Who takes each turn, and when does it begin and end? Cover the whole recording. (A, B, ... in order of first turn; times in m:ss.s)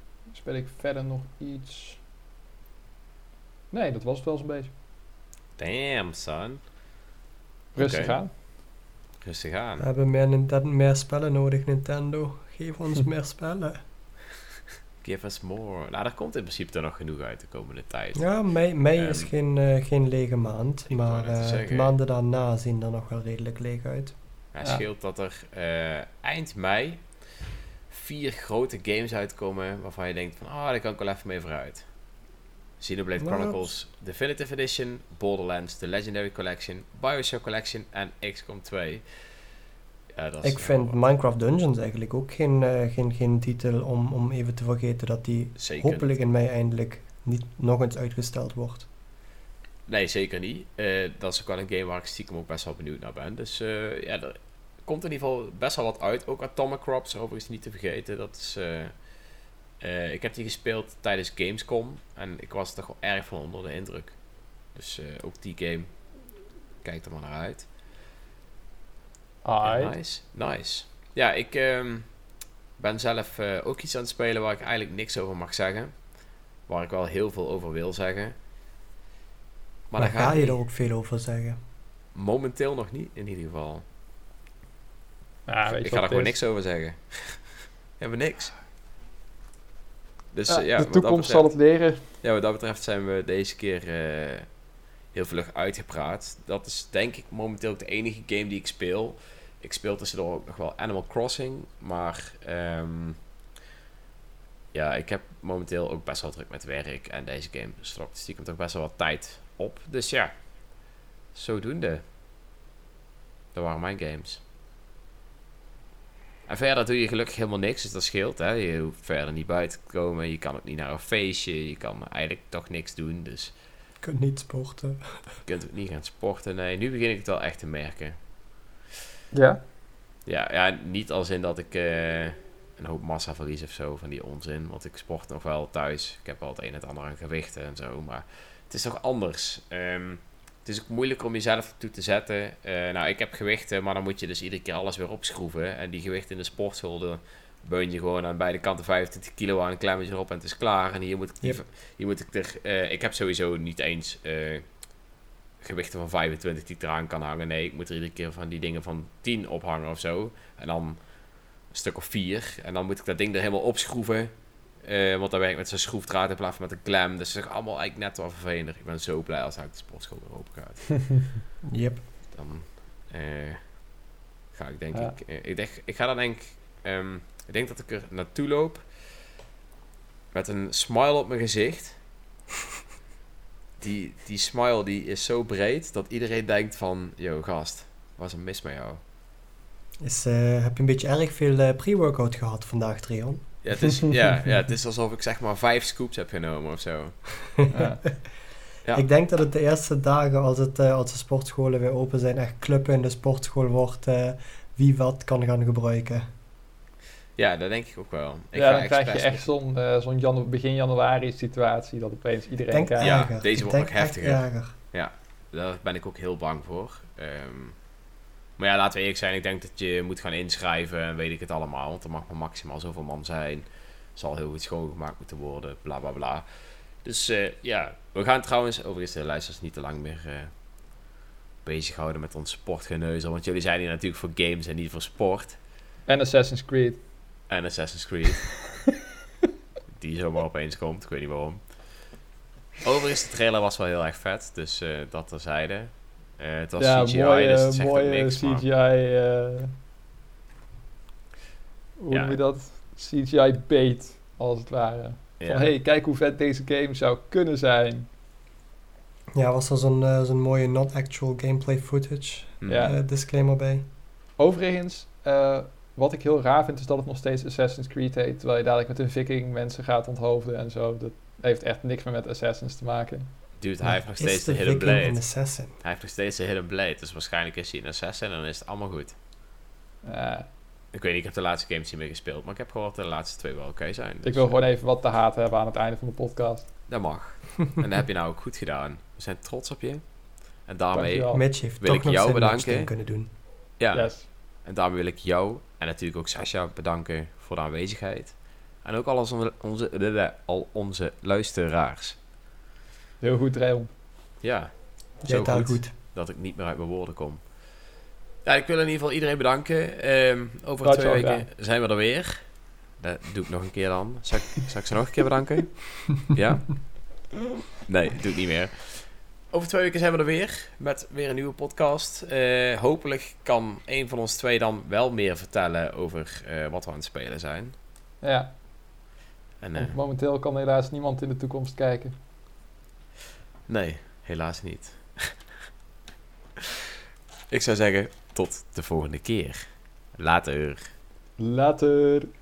0:00.3-0:02.0 A
0:03.7-0:04.7 A
0:05.6-0:06.6 B
0:07.7-0:08.3 A
0:07.8-0:08.2 B
0:09.2-0:09.8 B
0:09.8-0:13.8 C
0:15.0-0:19.3 B
0:18.2-0:24.1 C
0:20.9-0:21.9 B
0:24.5-0:31.9 B
0:32.8-0:39.0 B
0:33.2-0:33.6 C
0:40.2-0:41.0 B
0:40.4-0:48.9 C
0:45.6-0:46.1 B
0:49.9-0:58.9 B
0:59.8-1:04.2 B
1:04.7-1:05.9 B
1:06.8-1:07.7 B
1:09.4-1:09.9 A
1:09.6-1:12.1 B
1:12.8-1:16.0 B
1:16.7-1:18.3 B
1:19.9-1:20.6 B
1:20.0-1:21.6 C
1:22.1-1:23.8 B
1:25.5-1:26.3 A
1:25.7-1:28.5 B
1:30.3-1:34.5 B
1:30.5-1:32.0 A
1:35.1-1:43.2 B
1:44.7-1:50.3 B
1:51.3-1:52.0 B
1:53.5-1:54.4 B
1:56.5-2:03.5 B
2:04.0-2:05.2 C
2:05.4-2:08.2 B
2:09.3-2:09.6 A
2:10.2-2:34.9 B
2:35.6-2:51.4 B
2:51.6-2:52.0 C
2:52.3-2:53.9 B
2:54.5-2:59.1 B
3:00.3-3:02.0 B
3:03.8-3:09.0 B
3:10.0-3:14.0 C
3:13.6-3:17.7 B
3:17.7-3:18.0 A
3:18.9-3:26.2 C
3:27.4-3:29.5 B
3:28.5-3:33.1 A
3:32.7-3:34.8 C
3:33.0-3:37.8 B
3:38.6-3:50.5 B
3:51.6-3:55.6 B
3:56.0-3:57.0 A
3:57.5-3:58.8 B
3:59.9-4:01.9 B
4:02.8-4:08.6 B
4:06.8-4:09.7 A
4:12.0-4:18.1 A
4:12.1-4:12.4 B
4:15.4-4:15.7 B
4:19.3-4:23.8 C
4:22.6-4:22.9 B
4:22.6-4:23.0 A
4:24.4-4:33.3 A
4:33.6-4:39.2 B
4:33.8-4:35.7 C
4:40.0-4:40.5 A
4:40.9-4:44.6 B
4:44.2-4:46.7 A
4:46.9-4:52.9 B
4:50.9-4:51.4 A
4:51.3-4:53.3 C
4:53.8-5:02.2 B
4:53.9-4:54.3 A
5:03.2-5:03.9 A
5:04.4-5:07.9 B
5:05.2-5:05.9 C
5:08.4-5:27.7 B
5:10.8-5:11.4 A
5:28.2-5:28.5 A
5:29.6-5:30.0 B
5:29.8-5:32.1 A
5:33.7-5:35.5 B
5:37.5-5:40.9 B
5:41.4-5:42.3 A